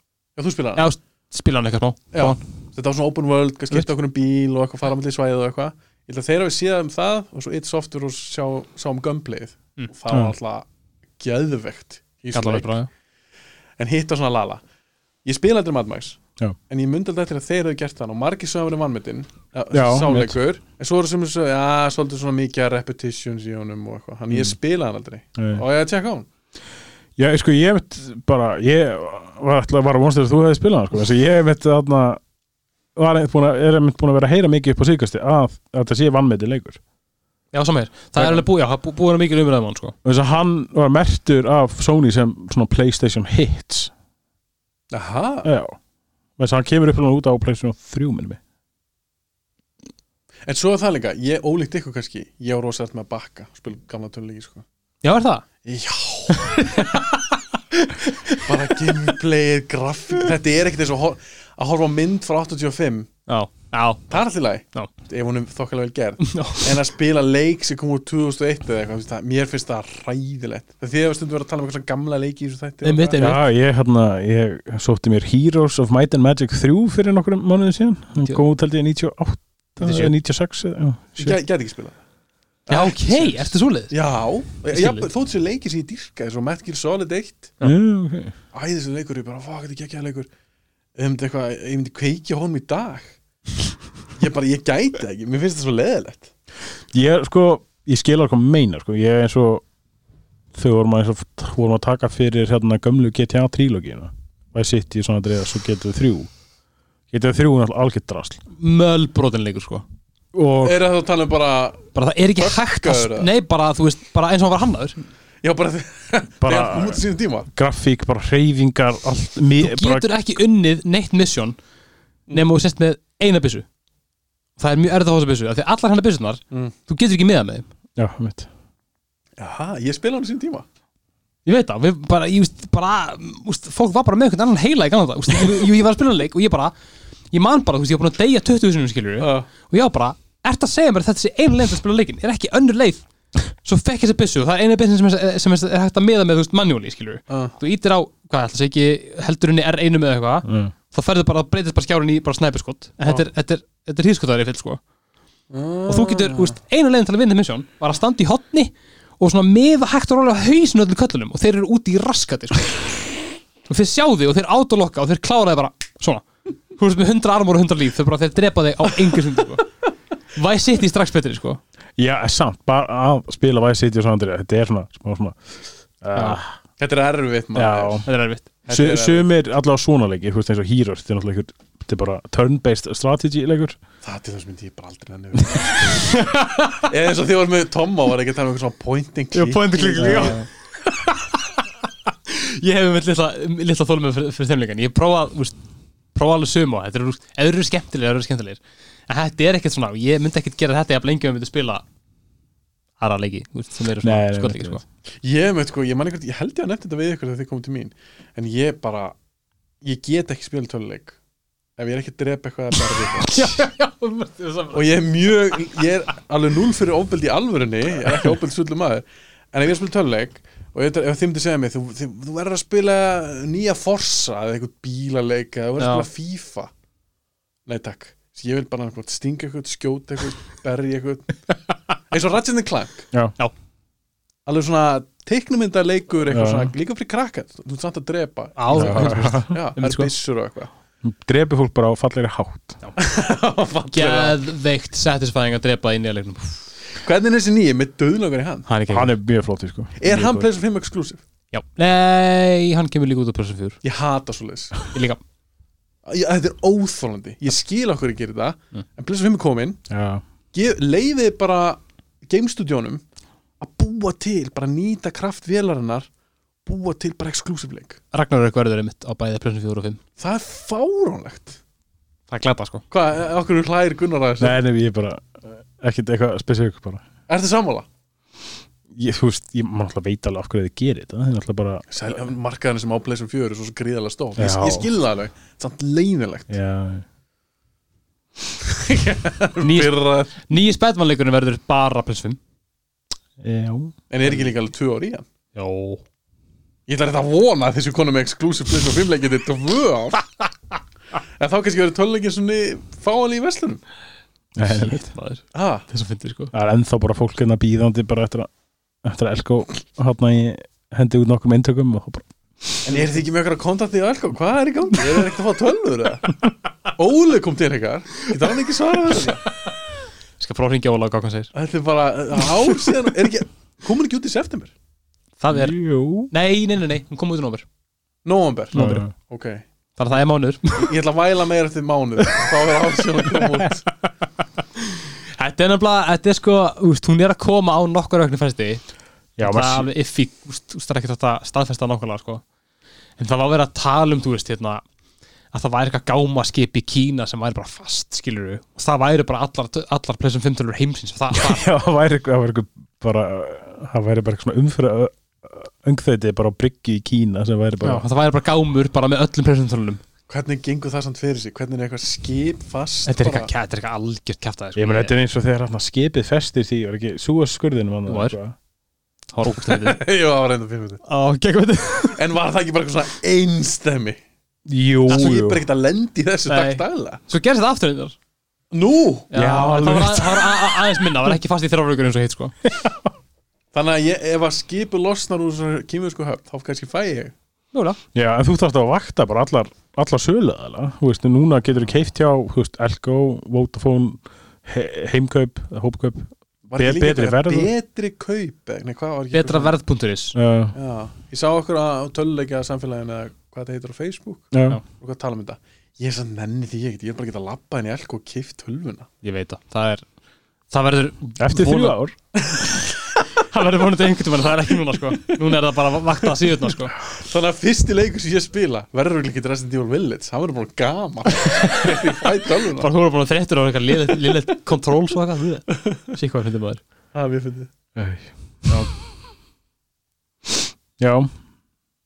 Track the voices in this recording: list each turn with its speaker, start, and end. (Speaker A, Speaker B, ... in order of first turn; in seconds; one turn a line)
Speaker A: 0.4-0.9
Speaker B: 0.8-2.4
Speaker A: 2.1-10.7
Speaker A: 11.2-12.7
Speaker B: 12.3-12.9
Speaker A: 13.8-14.6
Speaker A: 15.2-26.3
Speaker C: 19.7-20.4
Speaker C: 24.3-24.6
Speaker C: 25.4-25.6
Speaker C: 27.2-32.2
Speaker C: 33.0-36.8
Speaker B: 37.5-40.0
Speaker C: 38.2-38.4
Speaker C: 40.0-43.9
Speaker A: 44.9-45.5
Speaker C: 45.4-45.8
Speaker C: 46.4-48.4
Speaker A: 50.5-54.6
Speaker B: 55.0-55.4
Speaker A: 55.6-56.6
Speaker B: 56.3-58.9
Speaker A: 58.3-63.1
Speaker B: 63.3-64.2
Speaker A: 64.1-73.4
Speaker B: 66.2-66.7
Speaker B: 72.8-73.4
Speaker C: 73.2-81.4
Speaker B: 78.2-78.5
Speaker B: 79.8-80.1
Speaker A: 81.2-82.0
Speaker A: 82.7-87.6
Speaker B: 82.7-83.9
Speaker B: 84.7-85.1
Speaker C: 87.6-88.3
Speaker A: 88.5-90.3
Speaker A: 91.0-93.2
Speaker A: 94.2-96.3
Speaker C: 96.9-99.7
Speaker C: 100.5-106.3
Speaker C: 107.1-108.4
Speaker B: 108.5-109.8
Speaker C: 110.3-110.8
Speaker A: 110.6-113.3
Speaker B: 112.0-115.0
Speaker A: 115.4-117.5
Speaker C: 116.4-117.0
Speaker C: 117.5-120.1
Speaker B: 119.6-121.6
Speaker B: 122.3-123.7
Speaker B: 124.6-127.7
Speaker C: 128.0-128.5
Speaker A: 129.4-130.7
Speaker B: 131.5-136.7
Speaker B: 137.3-143.1
Speaker A: 139.2-139.5
Speaker B: 143.6-154.8
Speaker A: 147.3-147.6
Speaker C: 150.5-150.7
Speaker A: 155.5-156.6
Speaker B: 155.9-162.9
Speaker B: 163.7-169.7
Speaker B: 170.3-171.6
Speaker C: 172.0-176.5
Speaker B: 176.2-176.4
Speaker A: 176.8-178.1
Speaker C: 177.5-178.1
Speaker B: 178.1-178.5
Speaker A: 178.7-179.3
Speaker C: 178.7-183.8
Speaker A: 184.0-190.4
Speaker B: 185.9-186.9
Speaker B: 189.3-190.5
Speaker C: 190.0-190.4
Speaker B: 191.0-191.6
Speaker B: 192.3-195.6
Speaker B: 196.1-201.8
Speaker B: 203.0-204.8
Speaker C: 204.0-204.8
Speaker A: 205.2-209.2
Speaker A: 209.8-211.2
Speaker A: 211.8-213.6
Speaker B: 212.8-214.9
Speaker A: 214.7-226.7
Speaker B: 225.8-226.1
Speaker A: 227.7-231.4
Speaker A: 232.1-233.1
Speaker A: 234.5-240.7
Speaker C: 236.3-236.7
Speaker B: 238.6-240.1
Speaker C: 238.7-240.0
Speaker C: 241.0-242.8
Speaker A: 243.0-244.4
Speaker B: 243.9-246.6
Speaker A: 246.9-248.7
Speaker B: 248.7-249.1
Speaker C: 248.9-250.5
Speaker A: 250.0-251.2
Speaker B: 251.5-253.8
Speaker A: 253.8-254.8
Speaker B: 254.9-255.2
Speaker A: 256.1-259.8
Speaker C: 259.9-260.2
Speaker A: 260.5-263.0
Speaker A: 263.6-266.1
Speaker A: 266.7-268.0
Speaker B: 268.1-270.0
Speaker A: 270.2-271.6
Speaker B: 272.3-272.8
Speaker A: 272.9-274.6
Speaker C: 274.4-277.1
Speaker A: 277.3-277.9
Speaker C: 278.9-281.9
Speaker A: 281.9-286.6
Speaker C: 284.4-284.9
Speaker C: 286.5-287.1
Speaker A: 288.6-290.3
Speaker B: 289.6-292.4
Speaker C: 293.4-293.9
Speaker A: 294.1-295.2
Speaker B: 295.6-296.0
Speaker A: 296.9-300.2
Speaker A: 301.4-303.8
Speaker C: 304.6-305.1
Speaker B: 304.6-306.5
Speaker A: 305.5-305.9
Speaker C: 306.5-308.5
Speaker C: 309.0-312.3
Speaker A: 312.9-316.4
Speaker B: 312.9-313.2
Speaker A: 316.9-319.5
Speaker B: 320.4-321.5
Speaker A: 321.5-324.7
Speaker B: 325.4-325.8
Speaker C: 325.5-326.3
Speaker B: 326.3-327.6
Speaker A: 328.2-329.6
Speaker C: 328.7-329.1
Speaker B: 330.0-330.9
Speaker A: 330.8-333.9
Speaker B: 334.9-338.8
Speaker C: 339.4-339.9
Speaker B: 339.4-342.4
Speaker B: 343.2-344.8
Speaker B: 345.5-351.7
Speaker C: 351.3-358.1
Speaker B: 357.8-360.0
Speaker A: 360.3-363.5
Speaker B: 363.1-365.1
Speaker C: 364.8-368.6
Speaker B: 368.1-368.4
Speaker B: 369.3-370.0
Speaker A: 369.6-371.0
Speaker B: 371.1-372.2
Speaker A: 372.1-374.2
Speaker C: 374.7-375.6
Speaker A: 375.1-377.2
Speaker B: 376.5-378.2
Speaker A: 378.7-379.3
Speaker B: 379.3-382.6
Speaker C: 379.3-380.9
Speaker C: 382.7-383.1
Speaker A: 383.7-387.3
Speaker B: 387.7-388.0
Speaker C: 388.1-397.7
Speaker A: 396.7-399.8
Speaker B: 399.3-400.4
Speaker C: 400.4-400.8
Speaker A: 400.8-409.1
Speaker C: 404.5-404.8
Speaker B: 409.2-410.1
Speaker B: 410.7-412.0
Speaker C: 411.4-412.1
Speaker A: 412.4-412.8
Speaker B: 413.4-416.9
Speaker A: 417.1-422.9
Speaker B: 421.4-422.0
Speaker B: 422.8-426.8
Speaker A: 427.1-427.7
Speaker C: 428.0-428.9
Speaker C: 431.0-431.3